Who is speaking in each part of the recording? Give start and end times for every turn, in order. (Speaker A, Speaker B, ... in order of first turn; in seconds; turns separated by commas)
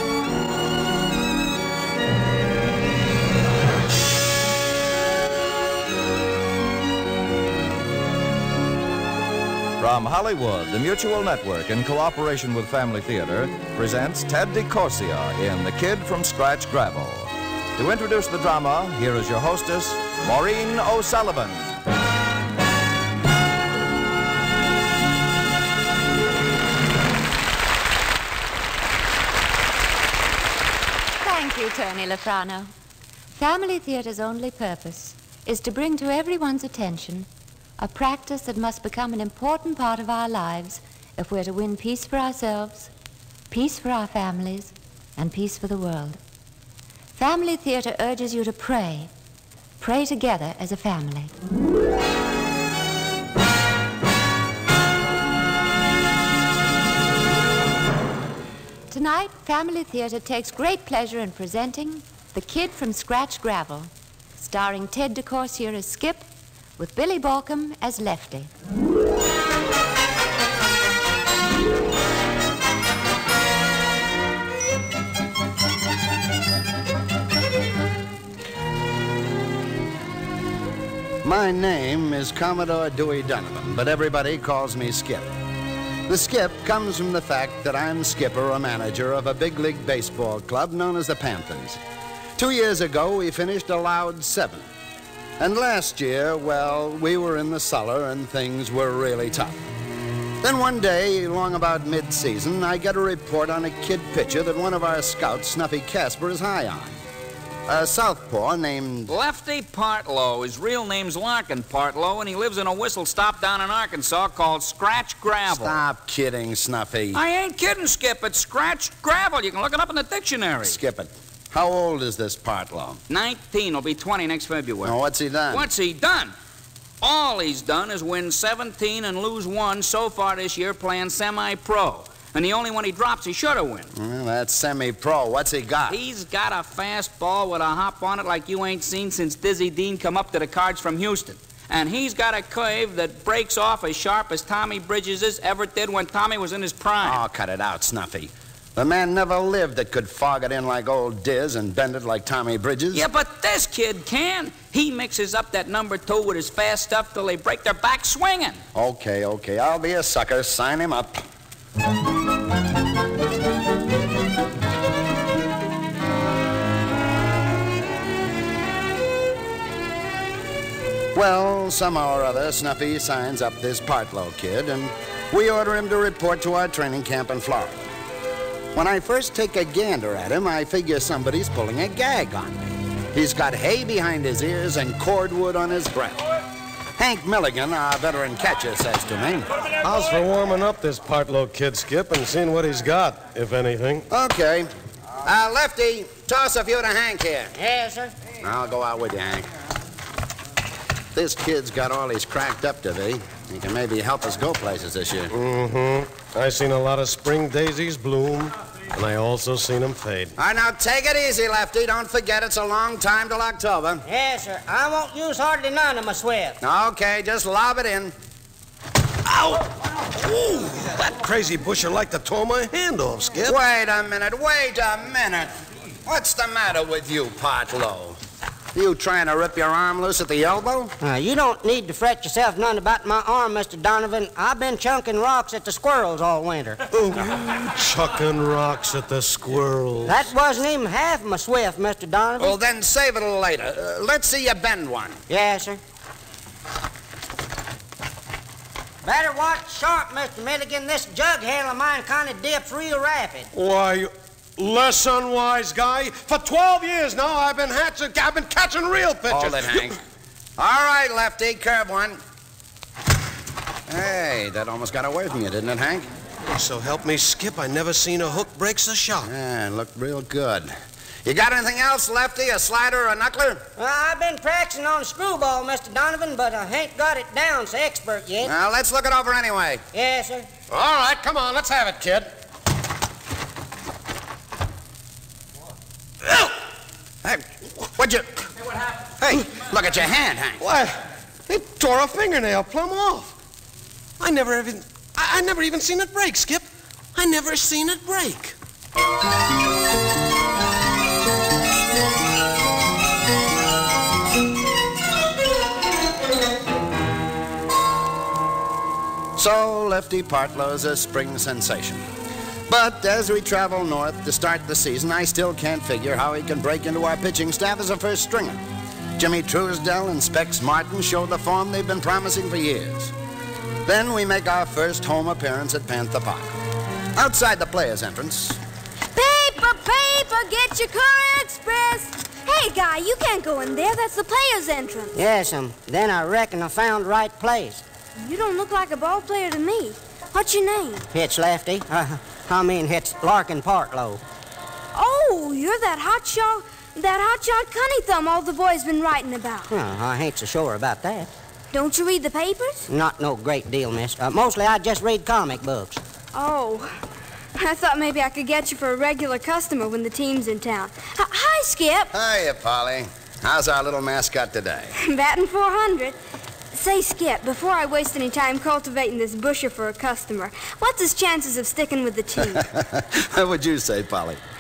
Speaker A: 9.8-21.8, Speaker B: 31.2-32.7, Speaker B: 33.4-37.3, Speaker B: 37.8-42.9, Speaker B: 43.5-46.2, Speaker B: 47.1-49.1, Speaker B: 49.8-51.3, Speaker B: 58.9-66.3, Speaker B: 66.8-68.5, Speaker C: 81.2-85.3, Speaker C: 86.1-91.8, Speaker C: 92.3-94.7, Speaker C: 95.4-99.6, Speaker C: 100.4-107.0, Speaker C: 107.7-109.1, Speaker D: 109.1-115.8, Speaker C: 115.5-117.2, Speaker D: 117.1-120.8, Speaker C: 120.6-123.0, Speaker D: 123.1-125.0, Speaker C: 124.8-125.7, Speaker D: 125.5-126.3, Speaker D: 127.0-133.9, Speaker C: 133.9-136.0, Speaker D: 135.9-147.2, Speaker C: 147.0-153.1, Speaker D: 152.9-158.6, Speaker C: 158.7-161.2, Speaker C: 171.1-177.8, Speaker C: 178.7-186.2, Speaker C: 187.0-189.5, Speaker E: 189.8-194.1, Speaker C: 194.1-194.7, Speaker C: 195.2-197.5, Speaker F: 197.6-198.1, Speaker C: 198.4-199.5, Speaker C: 201.1-205.3, Speaker E: 205.3-210.3, Speaker C: 210.4-214.0, Speaker F: 214.1-216.6, Speaker C: 216.6-218.1, Speaker E: 219.3-223.6, Speaker C: 223.4-225.5, Speaker C: 226.1-228.2, Speaker C: 228.7-230.9, Speaker F: 231.0-236.8, Speaker E: 236.9-240.2, Speaker F: 240.1-242.5, Speaker C: 242.4-245.2, Speaker F: 245.3-245.8, Speaker F: 249.0-253.5, Speaker E: 253.5-259.9, Speaker C: 259.3-260.0, Speaker C: 260.6-262.2, Speaker C: 263.9-266.1, Speaker E: 266.5-269.3, Speaker C: 269.2-270.7, Speaker C: 271.2-273.6, Speaker F: 273.8-278.5, Speaker C: 278.4-279.8, Speaker F: 279.9-280.5, Speaker E: 280.7-282.2, Speaker C: 280.8-282.1, Speaker C: 287.2-288.4, Speaker C: 289.2-290.6, Speaker E: 290.6-293.3, Speaker E: 294.2-298.5, Speaker C: 309.4-312.0, Speaker C: 312.7-318.6, Speaker C: 319.2-323.1, Speaker C: 323.9-326.5, Speaker C: 327.1-328.6, Speaker G: 329.1-335.1, Speaker F: 335.1-337.8, Speaker G: 338.2-341.1, Speaker F: 341.1-344.2, Speaker G: 344.9-349.7, Speaker F: 349.7-351.3, Speaker G: 351.7-352.9, Speaker F: 352.9-356.0, Speaker G: 356.3-357.0, Speaker G: 357.6-362.1, Speaker C: 362.1-364.9, Speaker G: 365.0-366.2, Speaker G: 366.7-372.6, Speaker C: 372.5-374.4